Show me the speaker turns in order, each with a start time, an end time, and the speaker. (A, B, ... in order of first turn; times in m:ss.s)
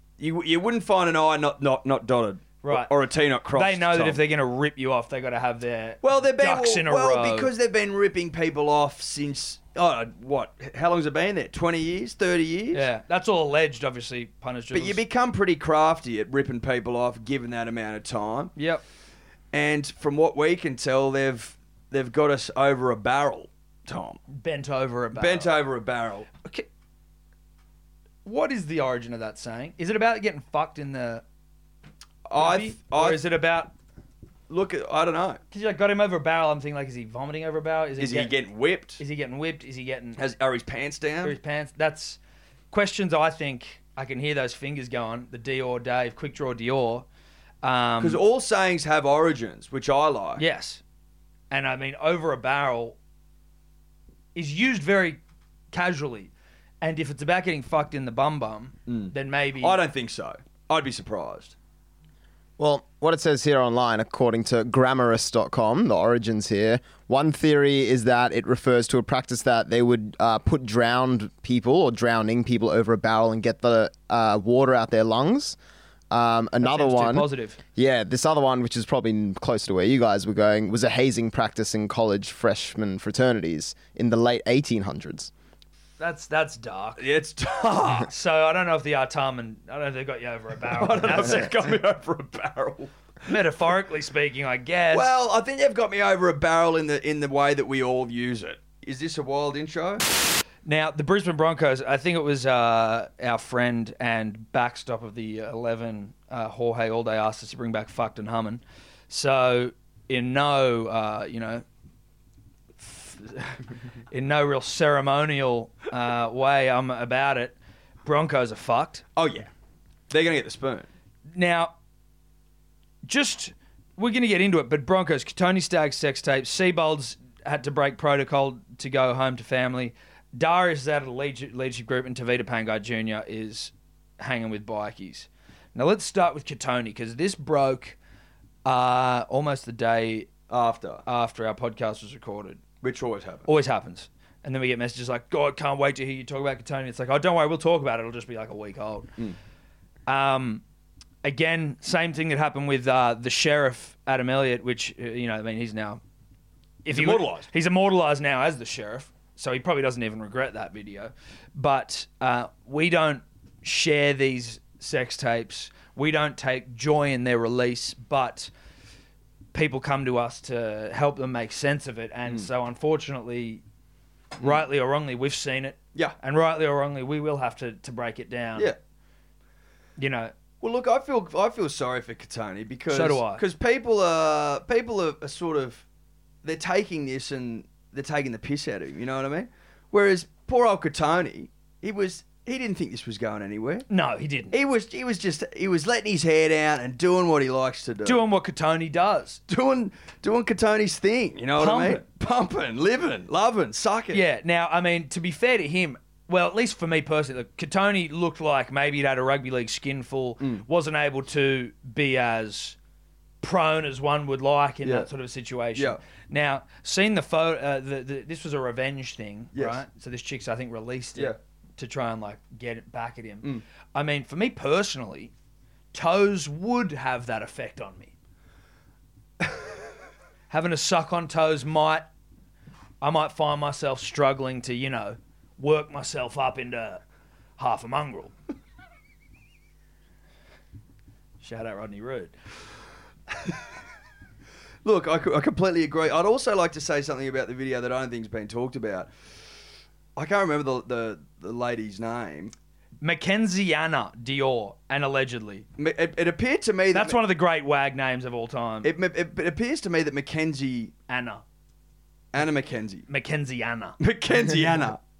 0:00.2-0:04.2 A
0:02.6-0:02.9 B
0:03.5-0:07.5 B
0:06.0-0:12.9 A
0:12.7-0:15.0 B
0:14.7-0:18.5 A
0:18.6-0:18.8 B
0:19.5-0:24.2 A
0:24.3-0:25.5 B
0:25.1-0:26.3 A
0:28.2-0:31.2 B
0:32.3-0:33.2 A
0:32.4-0:33.7 B
0:34.5-0:35.4 A
0:35.5-0:38.3 B
0:38.0-0:39.0 A
0:39.0-0:40.2 B
0:40.2-0:41.4 A
0:41.2-0:42.2 B
0:42.7-0:47.0 B
0:47.6-0:48.2 B
0:48.0-0:50.4 A
0:50.4-0:50.8 B
0:51.5-0:53.0 B
0:54.4-0:55.2 B
0:55.7-0:59.8 B
0:58.9-1:01.6 A
1:02.6-1:15.6 C
1:16.1-1:25.3 C
1:16.6-1:17.6 B
1:26.0-1:27.0 B
1:27.0-1:28.1 A
1:28.0-1:31.6 B
1:30.8-1:32.9 A
1:33.3-1:35.1 B
1:34.9-1:40.0 A
1:40.6-1:51.6 B
1:52.8-1:53.5 B
1:54.1-1:59.0 B
1:59.2-1:59.5 A
2:00.1-2:00.9 A
2:01.3-2:01.7 B
2:03.1-2:18.0 B
2:18.6-2:20.3 B
2:20.5-2:21.0 A
2:21.1-2:22.6 B
2:22.8-2:23.5 A
2:23.5-2:29.1 B
2:30.1-2:30.6 B
2:31.2-2:36.0 B
2:36.8-2:48.5 B
2:36.9-2:37.5 A
2:49.5-2:53.6 B
2:54.4-2:58.7 B
3:00.0-3:00.3 B
3:00.6-3:05.8 A
3:02.9-3:03.4 B
3:06.4-3:13.9 A
3:13.9-3:14.6 B
3:14.5-3:18.2 A
3:18.0-3:19.4 B
3:19.5-3:24.2 A
3:21.6-3:22.0 B
3:24.1-3:32.8 B
3:30.4-3:30.6 A
3:33.4-3:45.3 B
3:34.8-3:35.1 A
3:39.6-3:39.8 A
3:45.9-3:48.1 B
3:50.5-3:52.1 B
3:53.0-3:57.0 B
3:57.6-3:58.3 B
4:01.4-4:02.3 B
4:04.8-4:09.1 A
4:10.2-4:12.5 A
4:13.0-4:15.7 B
4:15.8-4:17.2 A
4:16.9-4:18.9 B
4:18.8-4:20.9 A
4:21.1-4:21.4 B
4:22.3-4:23.1 A
4:23.1-4:24.0 B
4:24.0-4:25.0 A